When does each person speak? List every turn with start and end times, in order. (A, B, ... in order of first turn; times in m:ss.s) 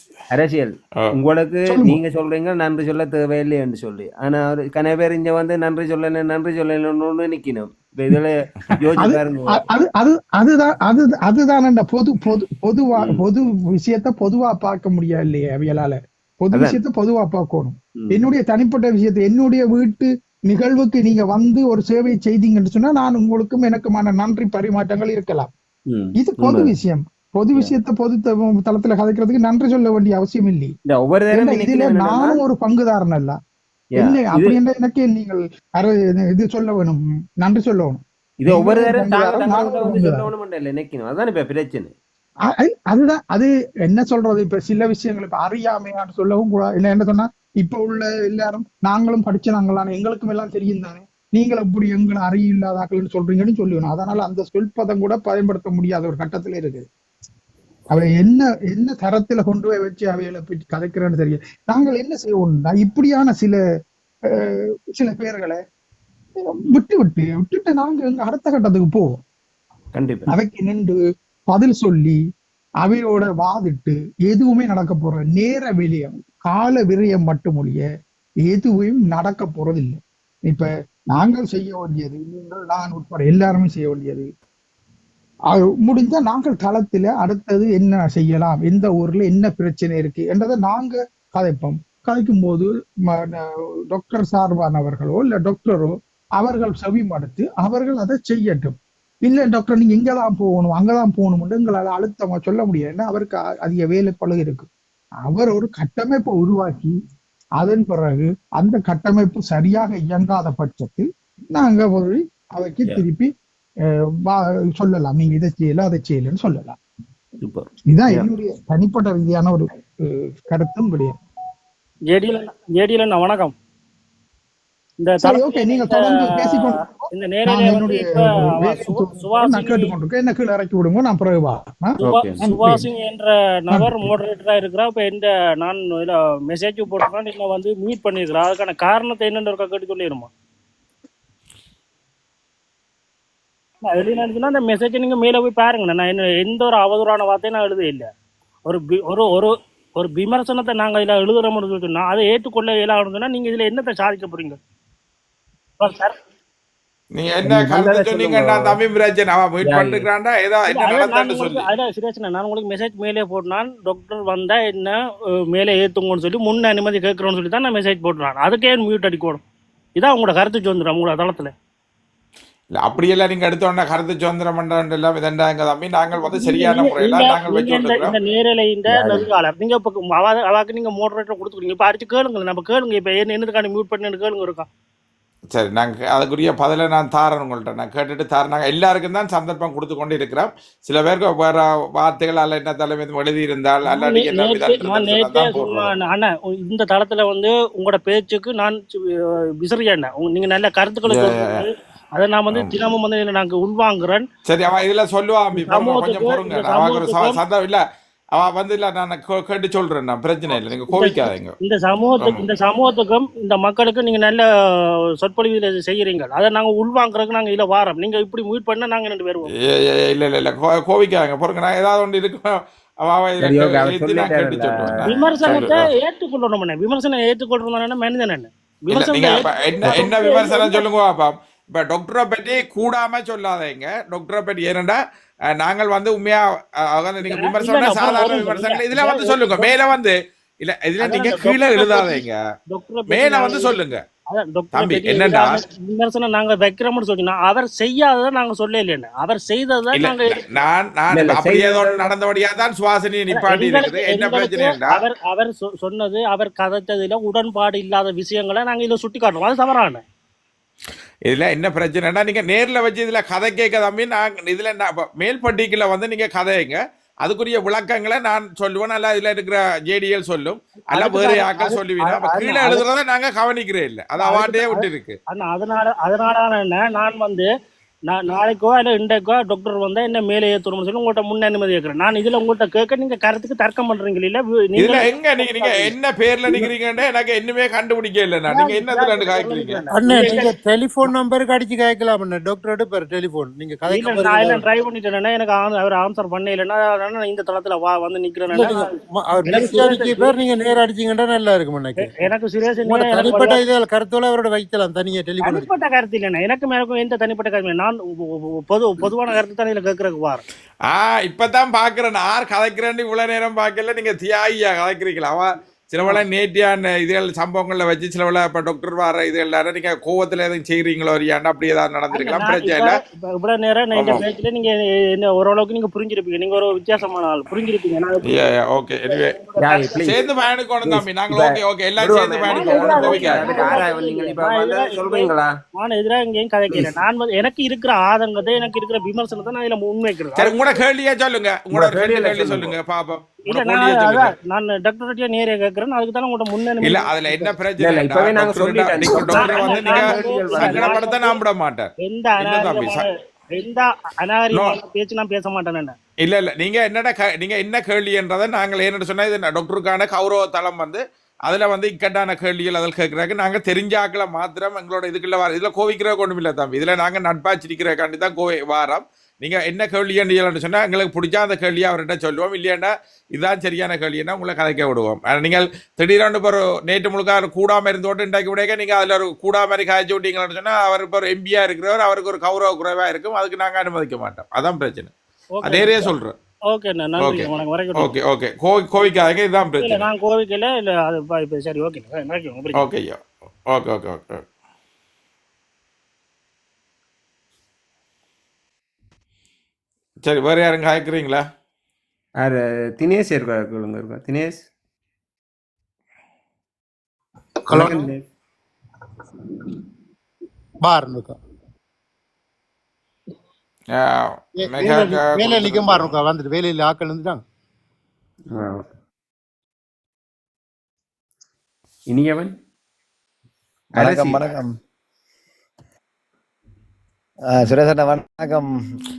0:00.3-0:09.6 A
0:01.7-0:02.0 B
0:09.0-0:25.5 B
0:16.5-0:16.8 A
0:25.9-0:26.7 A
0:26.2-0:30.7 B
0:30.9-0:32.4 A
0:31.3-0:33.4 B
0:34.0-0:34.6 A
0:34.0-0:40.3 B
0:38.4-0:41.9 A
0:42.5-0:56.9 B
0:57.9-1:03.6 B
1:04.4-1:05.6 B
1:06.7-1:09.2 B
1:10.0-1:10.3 A
1:10.3-1:11.0 B
1:11.5-1:12.2 B
1:12.8-1:17.8 B
1:18.5-1:24.3 B
1:25.8-1:44.7 B
1:45.3-1:47.0 B
1:47.6-1:53.3 B
1:54.2-1:56.8 B
1:57.4-1:58.3 A
1:57.9-2:01.2 B
2:02.1-2:03.5 C
2:05.0-2:09.9 C
2:05.2-2:12.8 B
2:12.0-2:20.3 C
2:12.0-2:12.4 A
2:23.9-2:28.1 C
2:28.7-2:34.6 C
2:35.8-2:36.1 C
2:37.2-2:41.7 D
2:37.4-2:38.8 A
2:39.6-2:40.1 A
2:40.7-2:45.0 C
2:45.5-2:49.4 C
2:50.0-2:51.5 C
2:52.8-2:58.2 D
2:56.2-3:04.6 C
3:05.5-3:15.9 D
3:13.9-3:24.2 C
3:21.1-3:21.7 D
3:22.5-3:22.8 D
3:24.5-3:27.8 D
3:25.5-3:27.4 C
3:28.4-3:31.6 D
3:30.5-3:34.4 C
3:35.2-3:39.5 C
3:39.6-3:45.8 D
3:43.4-3:45.8 A
3:45.1-3:50.8 C
3:48.9-3:55.0 D
3:55.6-4:02.4 D
3:57.2-3:59.7 C
4:01.0-4:03.8 C
4:03.1-4:04.0 D
4:04.3-4:10.6 C
4:04.7-4:05.6 D
4:09.9-4:15.0 D
4:11.1-4:12.1 A
4:13.3-4:20.0 C
4:21.3-4:35.2 D
4:30.9-4:32.9 C
4:34.2-4:37.5 C
4:38.1-4:45.9 C
4:44.8-4:49.8 D
4:48.5-4:50.5 C
4:49.9-4:54.6 E
4:53.9-4:58.8 C
4:58.5-5:02.3 E
4:59.4-5:00.4 C
5:02.0-5:03.6 C
5:02.8-5:05.7 E
5:05.4-5:08.0 C
5:08.7-5:10.4 C
5:10.9-5:23.0 D
5:22.1-5:28.5 C
5:23.9-5:24.2 D
5:28.2-5:29.4 D
5:29.1-5:30.2 C
5:29.6-5:30.2 A
5:30.0-5:33.6 D
5:30.8-5:35.5 A
5:32.5-5:40.7 C
5:40.4-5:44.3 D
5:41.7-5:42.8 A
5:43.5-5:47.5 C
5:46.8-5:53.0 D
5:47.8-5:51.0 A
5:49.3-5:51.4 C
5:52.0-5:55.9 C
5:56.2-6:25.1 D
6:25.6-6:26.1 C
6:25.6-6:26.3 D
6:26.7-6:28.1 C
6:27.2-6:30.0 D
6:29.0-6:32.9 C
6:32.8-6:34.4 D
6:40.2-6:41.4 D
6:42.4-6:44.6 A
6:47.7-6:48.1 E
6:47.8-6:48.2 A
6:50.8-6:51.4 E
6:54.0-6:56.1 D
6:54.6-6:57.4 E
6:58.5-6:58.8 A
7:02.1-7:02.6 A
7:04.0-7:04.4 A
7:04.0-7:04.8 F
7:07.4-7:08.8 F